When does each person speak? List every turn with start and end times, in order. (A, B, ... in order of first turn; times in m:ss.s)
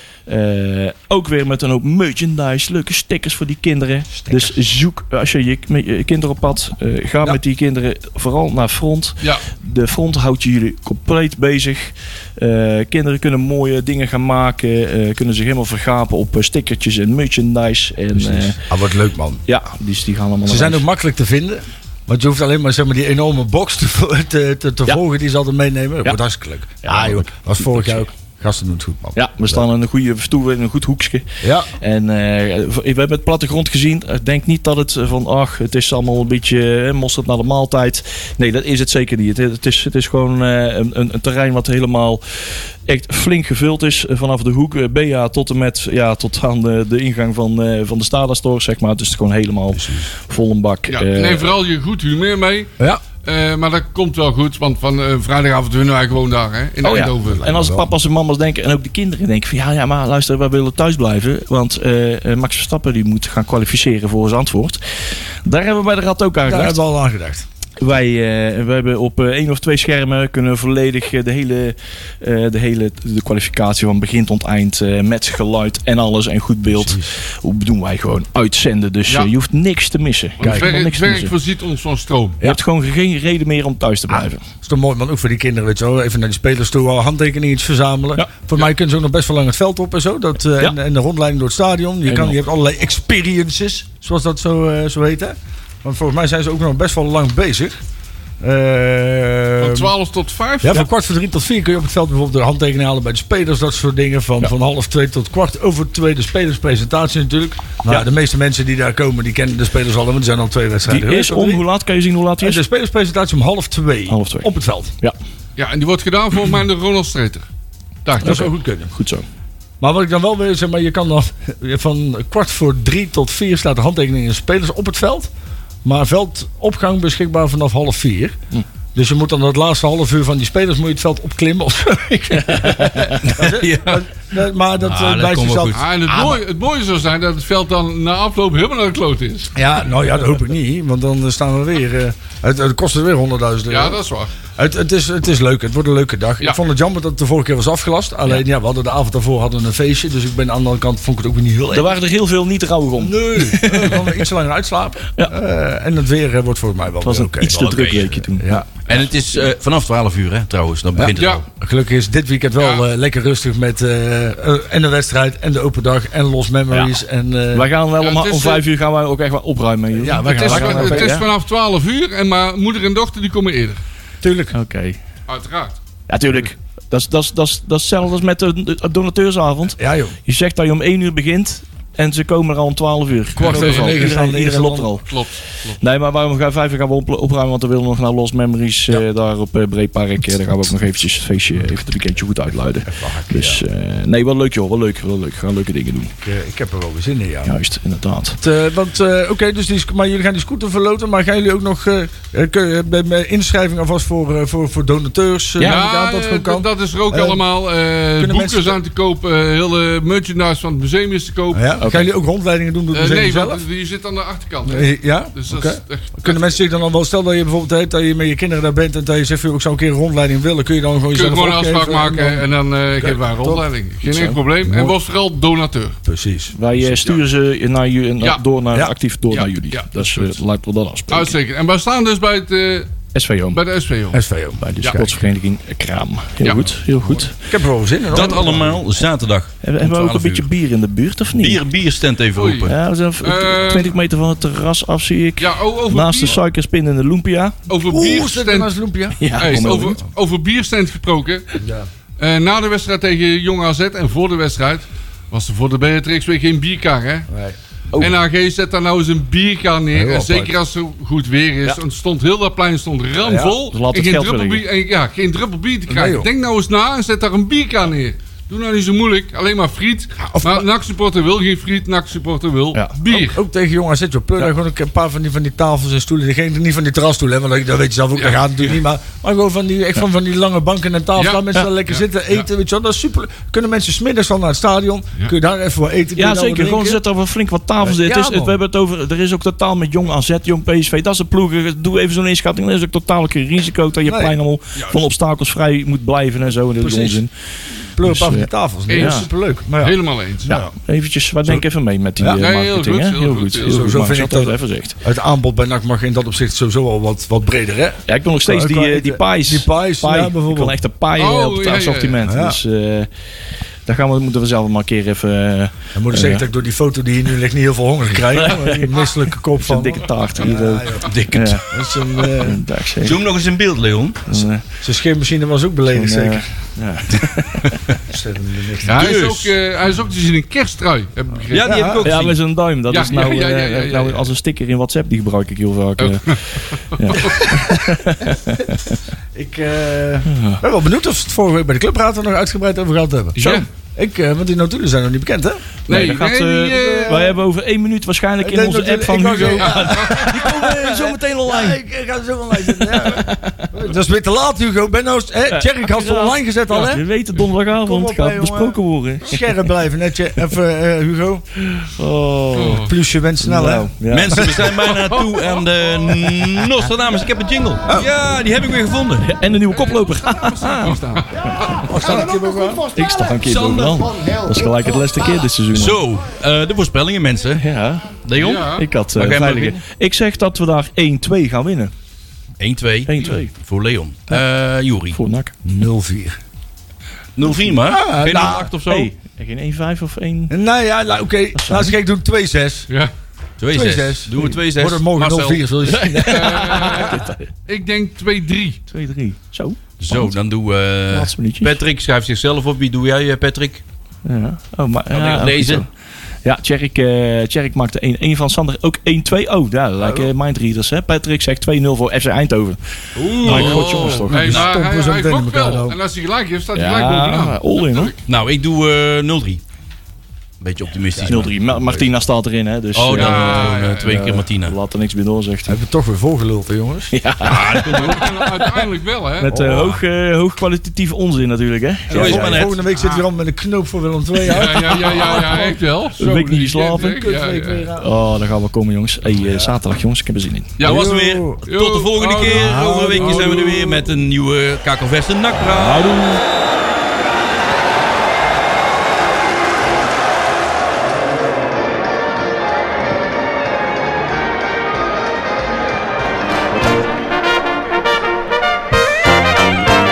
0:00.2-0:18.6 A
0:18.1-0:19.4 B
0:19.4-0:20.8 A
0:20.4-0:29.6 B
0:26.8-0:28.1 A
0:29.1-0:31.2 A
0:31.4-0:31.7 B
0:31.8-0:51.5 A
0:49.7-0:50.1 B
0:50.9-0:57.4 C
0:56.8-1:06.8 A
0:57.2-0:57.9 B
1:06.5-1:07.4 B
1:07.8-1:21.3 A
1:16.7-1:17.1 B
1:20.4-1:22.4 C
1:20.4-1:20.7 B
1:22.4-1:24.4 A
1:24.6-1:37.8 B
1:32.0-1:32.4 A
1:38.4-1:39.9 B
1:39.6-1:40.9 C
1:40.6-1:51.6 B
1:50.9-1:52.6 A
1:52.4-1:54.9 B
1:54.1-1:55.2 A
1:55.6-1:57.4 C
1:58.0-1:58.5 C
1:58.2-1:58.9 B
1:58.2-1:59.2 A
1:59.8-2:05.3 B
2:05.8-2:08.4 B
2:08.9-2:16.4 B
2:12.5-2:13.2 A
2:13.2-2:14.0 D
2:14.8-2:15.8 D
2:15.7-2:19.5 C
2:19.6-2:24.0 B
2:23.7-2:24.3 C
2:24.6-2:31.9 B
2:31.7-2:34.2 A
2:33.0-2:38.6 B
2:37.0-2:38.6 A
2:37.4-2:38.1 D
2:38.8-2:41.4 D
2:40.9-2:47.7 B
2:41.2-2:41.4 C
2:42.6-2:42.8 C
2:47.5-2:51.3 A
2:48.0-2:48.6 C
2:49.9-2:51.2 B
2:50.2-2:53.8 C
2:54.2-2:54.5 B
2:54.5-2:55.0 A
2:55.3-2:55.8 C
2:56.1-3:05.0 A
2:59.8-3:00.2 B
3:03.4-3:04.1 C
3:03.4-3:04.9 B
3:05.0-3:05.8 C
3:05.8-3:16.1 A
3:12.9-3:13.6 B
3:16.2-3:17.5 B
3:17.4-3:18.4 A
3:18.4-3:27.4 B
3:25.6-3:31.8 C
3:28.2-3:28.8 B
3:31.5-3:33.6 B
3:31.8-3:32.1 A
3:32.9-3:36.6 C
3:34.6-3:42.5 B
3:41.1-3:46.0 C
3:43.0-3:43.6 B
3:44.0-3:44.9 A
3:46.0-3:46.5 B
3:46.5-3:51.3 A
3:46.8-3:47.2 C
3:49.3-3:50.4 C
3:51.1-3:52.9 C
3:53.1-3:53.6 A
3:53.5-3:54.2 C
3:54.1-3:55.1 B
3:54.6-3:57.3 A
3:56.4-3:56.7 C
3:57.3-3:58.8 B
3:58.1-4:00.5 D
3:59.6-4:01.6 A
4:01.4-4:02.7 D
4:02.3-4:02.7 C
4:02.6-4:07.6 A
4:03.2-4:03.9 C
4:05.4-4:06.4 C
4:07.7-4:08.7 C
4:07.8-4:09.6 B
4:09.2-4:10.0 A
4:09.3-4:11.5 C
4:11.6-4:11.9 B
4:12.2-4:17.3 C
4:17.3-4:17.6 B
4:18.0-4:33.4 C
4:19.9-4:20.5 B
4:23.2-4:23.6 B
4:23.7-4:24.6 A
4:25.9-4:26.3 B
4:30.2-4:30.6 B
4:33.1-4:47.0 B
4:38.2-4:38.8 C
4:41.2-4:42.4 C
4:46.2-4:57.3 A
4:47.8-4:48.6 B
4:54.0-4:55.0 B
4:56.8-4:57.2 B
4:57.9-5:00.7 B
4:58.0-4:59.2 A
4:58.9-5:00.6 C
5:00.5-5:05.0 A
5:02.2-5:02.4 B
5:02.4-5:03.9 C
5:03.7-5:10.8 B
5:08.1-5:13.1 A
5:11.2-5:12.2 C
5:12.2-5:12.6 B
5:13.8-5:16.4 A
5:15.9-5:21.1 B
5:18.2-5:21.7 A
5:21.0-5:21.8 D
5:21.7-5:22.6 B
5:22.4-5:23.2 A
5:23.0-5:24.3 D
5:24.2-5:24.6 A
5:24.8-5:26.4 B
5:25.9-5:27.8 A
5:28.1-5:29.0 B
5:28.8-5:32.0 C
5:28.9-5:29.5 D
5:31.5-5:32.4 D
5:31.6-5:32.0 B
5:32.0-5:39.0 A
5:32.9-5:34.2 C
5:36.0-5:36.4 C
5:37.1-5:37.4 C
5:39.3-5:45.6 B
5:40.2-5:40.6 A
5:43.4-5:43.6 A
5:43.4-5:43.6 C
5:45.9-5:51.8 A
5:45.9-5:47.4 C
5:46.7-5:47.3 B
5:48.4-5:57.0 B
5:52.5-5:53.8 A
5:55.5-5:59.7 A
5:57.8-6:01.4 B
6:01.6-6:04.6 A
6:02.6-6:02.9 C
6:02.7-6:04.8 B
6:04.1-6:09.3 D
6:05.1-6:05.6 C
6:09.2-6:12.3 A
6:09.7-6:12.0 C
6:11.9-6:12.9 B
6:12.0-6:12.4 D
6:12.9-6:16.0 A
6:13.4-6:14.1 D
6:15.7-6:17.6 D
6:17.6-6:21.9 A
6:18.2-6:19.8 D
6:18.4-6:18.9 C
6:22.6-6:25.2 D
6:23.0-6:23.5 A
6:25.1-6:25.6 A
6:25.6-6:26.4 B
6:27.4-6:29.1 D
6:27.8-6:28.7 B
6:28.8-6:30.5 A
6:30.5-6:32.9 B
6:31.5-6:31.9 A
6:33.6-6:35.6 D
6:33.7-6:37.1 B
6:35.8-6:37.5 A
6:36.2-6:38.8 C
6:38.9-6:40.3 A
6:40.0-6:43.8 D
6:41.1-6:41.8 A
6:44.2-6:45.9 A
6:45.1-6:45.8 D
6:46.4-6:54.6 A
6:50.0-6:50.3 B
6:53.2-6:58.2 C
6:53.4-6:56.0 B
6:53.4-6:54.6 D
6:56.7-6:58.1 A
6:58.2-6:59.6 D
7:00.6-7:02.1 D
7:01.1-7:01.5 B
7:01.2-7:05.8 A
7:02.9-7:04.8 D
7:03.1-7:04.2 C
7:05.6-7:07.8 B
7:07.1-7:08.7 A
7:07.4-7:08.2 D
7:07.9-7:09.5 C
7:09.4-7:12.7 A
7:09.5-7:10.0 B
7:09.7-7:10.0 D
7:12.1-7:15.8 B
7:12.1-7:12.8 D
7:12.9-7:13.2 C
7:14.5-7:17.9 C
7:16.2-7:17.2 A
7:16.9-7:18.1 B
7:18.0-7:20.8 A
7:19.4-7:19.7 B
7:20.8-7:24.0 C
7:20.8-7:26.2 D
7:20.8-7:21.6 B
7:22.4-7:23.7 B
7:25.8-7:26.4 A